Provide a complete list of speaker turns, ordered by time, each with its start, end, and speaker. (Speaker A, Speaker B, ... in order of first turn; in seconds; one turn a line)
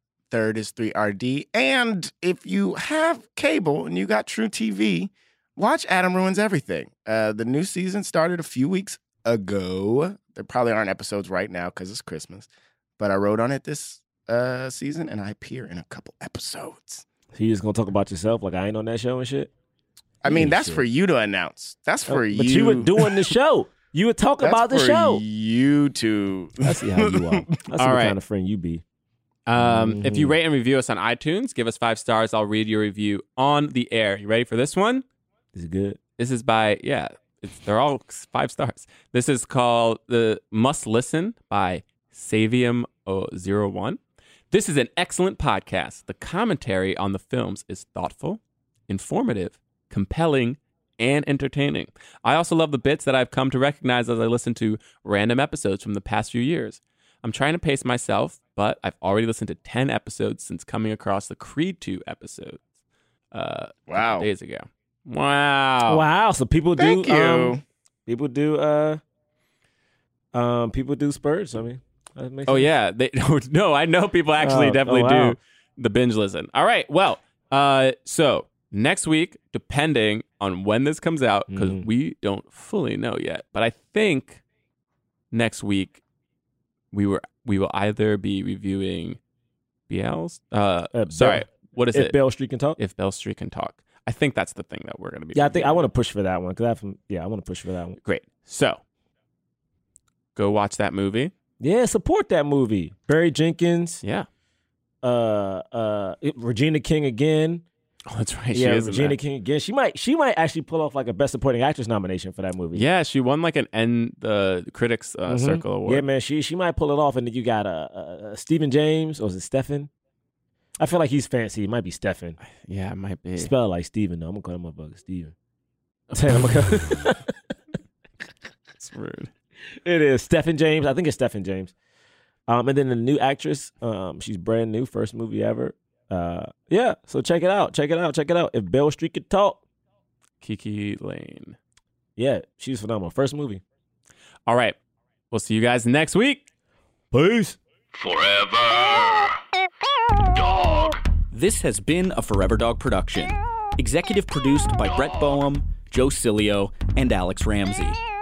Speaker A: 0.3-12.5
Speaker A: 13.0-17.1
Speaker B: 17.3-19.5
Speaker A: 20.2-23.3
Speaker B: 20.3-20.8
Speaker B: 22.1-25.2
Speaker A: 24.4-27.6
Speaker B: 26.6-28.8
Speaker C: 27.8-28.2
Speaker C: 29.5-35.0
Speaker B: 29.6-30.4
Speaker B: 35.5-36.0
Speaker C: 36.2-44.0
Speaker C: 44.5-62.6
Speaker C: 63.3-66.0
Speaker A: 63.9-64.3
Speaker B: 65.9-69.0
Speaker A: 66.8-67.6
Speaker B: 70.3-72.7
Speaker C: 72.5-84.4
Speaker B: 74.4-75.4
Speaker B: 81.5-81.9
Speaker C: 85.3-86.0
Speaker C: 86.9-89.2
Speaker C: 89.9-92.2
Speaker B: 90.9-92.8
Speaker C: 92.8-95.8
Speaker B: 95.3-98.0
Speaker C: 98.0-98.8
Speaker C: 100.3-101.3
Speaker B: 101.6-104.0
Speaker B: 105.0-107.7
Speaker C: 108.1-109.2
Speaker B: 108.5-112.9
Speaker C: 112.8-116.0
Speaker B: 115.3-119.9
Speaker B: 120.8-122.4
Speaker C: 122.5-123.5
Speaker B: 123.4-125.3
Speaker C: 126.1-126.5
Speaker B: 126.1-127.3
Speaker C: 128.8-129.3
Speaker B: 129.8-131.7
Speaker B: 132.5-139.6
Speaker C: 140.4-141.6
Speaker B: 142.2-143.6
Speaker C: 144.5-144.8
Speaker C: 145.3-146.4
Speaker B: 147.1-147.6
Speaker D: 147.9-149.3
Speaker D: 150.3-151.0
Speaker E: 151.3-158.0